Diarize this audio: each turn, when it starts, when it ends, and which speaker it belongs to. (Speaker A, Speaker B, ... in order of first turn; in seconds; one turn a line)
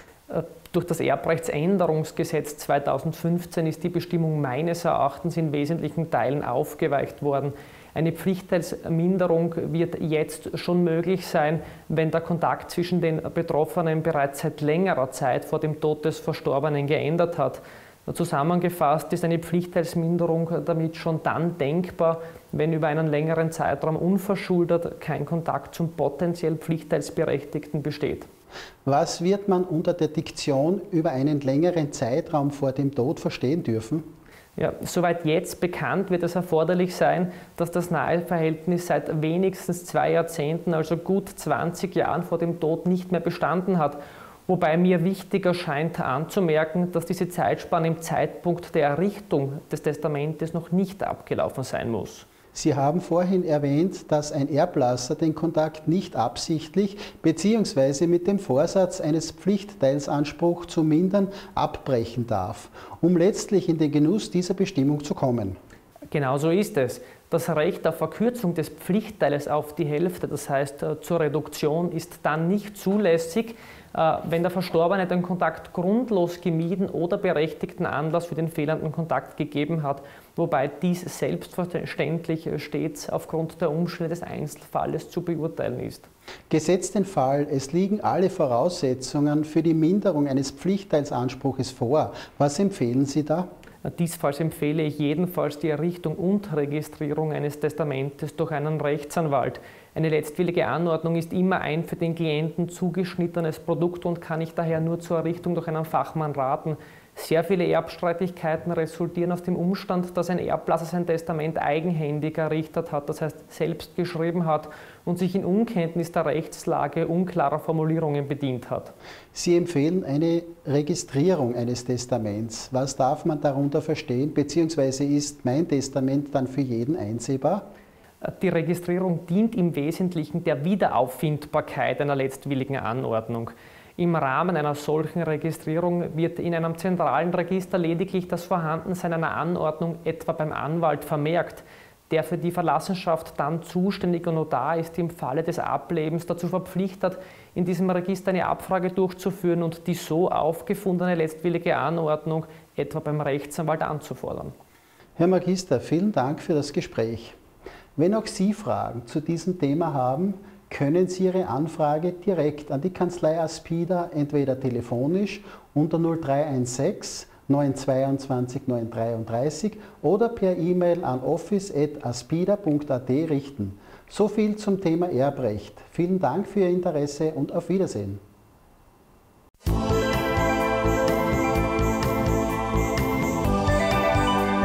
Speaker A: 0.3-28.3
Speaker B: 28.9-34.0
Speaker A: 34.5-52.2
Speaker B: 52.5-65.6
Speaker A: 66.1-86.1
Speaker B: 86.5-93.5
Speaker A: 93.8-118.9
Speaker B: 119.3-127.7
Speaker A: 128.2-154.5
Speaker B: 155.2-157.3
Speaker B: 158.0-178.2